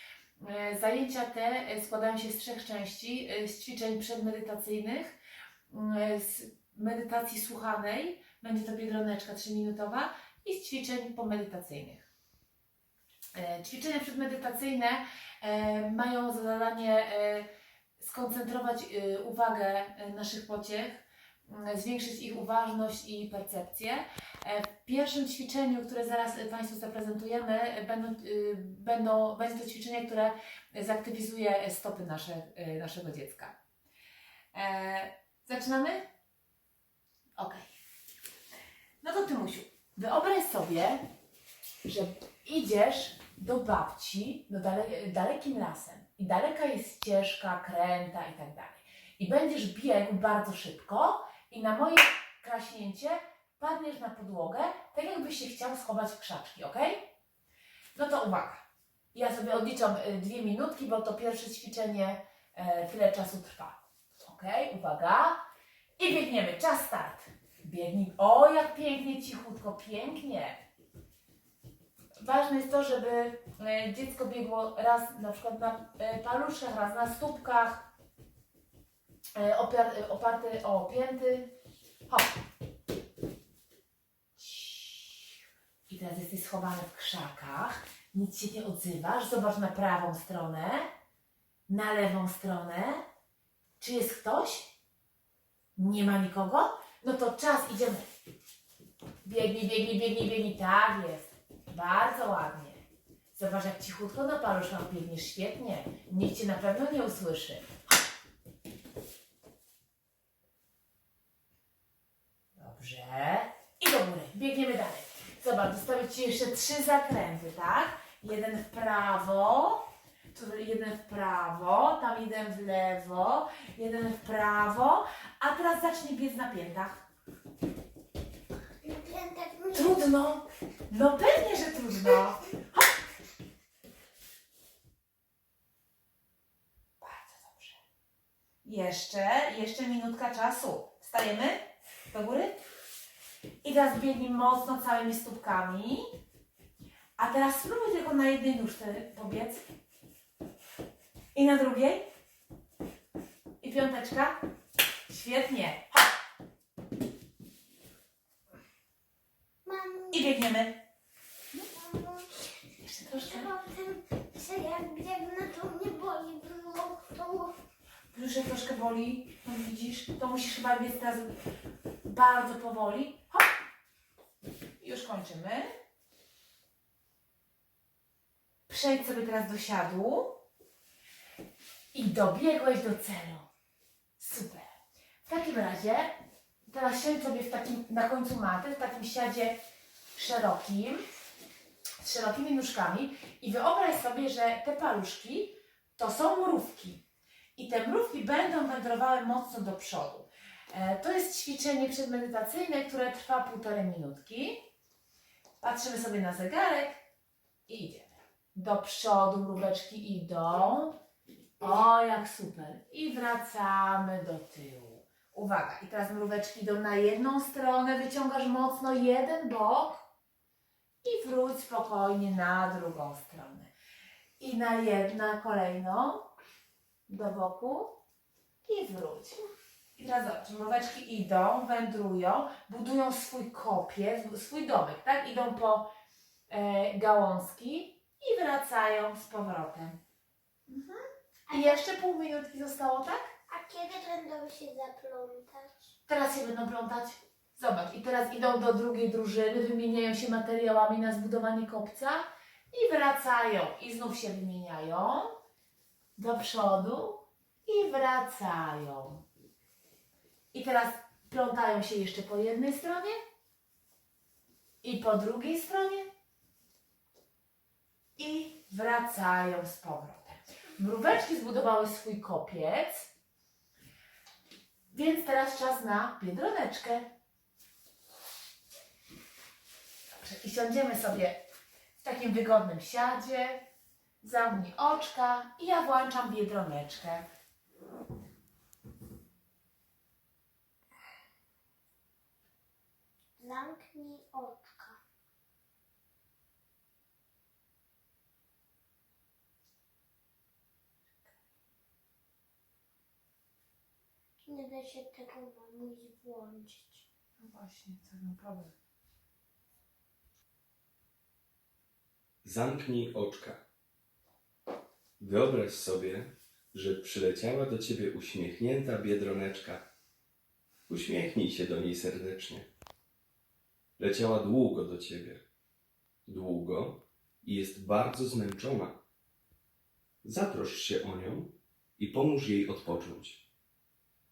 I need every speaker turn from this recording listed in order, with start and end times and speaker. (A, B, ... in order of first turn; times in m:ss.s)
0:00.4-0:05.2 A
0:05.7-0:12.0 A
0:13.3-0:17.5 A
0:18.0-0:33.5 A
0:34.5-0:36.0 A
0:37.4-0:37.7 A
0:39.0-0:41.0 A
0:41.8-0:57.1 A
0:57.9-1:05.4 A
1:06.0-1:10.6 A
1:12.2-1:17.9 A
1:19.3-1:21.5 A
1:22.1-1:22.4 A
1:24.4-1:25.3 A
1:25.9-1:30.9 A
1:31.7-1:33.0 A
1:33.8-1:34.7 A
1:35.8-1:38.1 A
1:39.2-1:42.8 A
1:43.3-1:47.7 A
1:52.6-2:07.0 A
2:08.8-2:10.0 B
2:09.7-2:12.9 A
2:17.0-2:17.8 A
2:18.6-2:22.6 A
2:23.6-2:26.1 A
2:27.2-2:29.6 A
2:31.3-2:32.0 A
2:33.6-2:34.4 A
2:35.1-2:36.1 A
2:39.6-2:40.3 B
2:40.1-2:40.8 A
2:41.7-2:42.3 B
2:42.8-2:43.5 A
2:43.1-2:47.5 B
2:48.1-2:51.3 A
2:52.0-2:53.5 A
2:54.8-2:55.7 A
2:58.7-3:00.4 A
3:01.9-3:03.5 A
3:04.2-3:04.7 A
3:05.2-3:06.1 A
3:06.7-3:09.6 A
3:10.1-3:11.0 A
3:12.0-3:17.0 A
3:17.6-3:24.6 A
3:25.6-3:27.0 A
3:27.7-3:30.9 A
3:31.6-3:40.1 A
3:41.0-3:43.7 A
3:44.4-3:46.3 A
3:47.1-3:48.0 A
3:48.6-3:49.4 A
3:50.0-3:55.9 A
3:56.5-4:00.0 A
4:00.7-4:03.3 A
4:01.5-4:01.8 B
4:03.5-4:05.8 B
4:06.1-4:15.3 A
4:16.2-4:19.2 A
4:20.5-4:23.2 A
4:24.8-4:26.1 A
4:28.2-4:33.1 A
4:34.9-4:37.1 A
4:40.2-4:41.4 A
4:42.0-4:43.6 A
4:44.2-4:47.2 A
4:53.4-4:55.0 B
5:04.5-5:07.0 B
5:07.4-5:08.7 A
5:12.4-5:13.6 C
5:15.2-5:19.8 C
5:20.9-5:22.7 C
5:24.0-5:25.4 C
5:26.2-5:29.0 C
5:30.2-5:33.4 C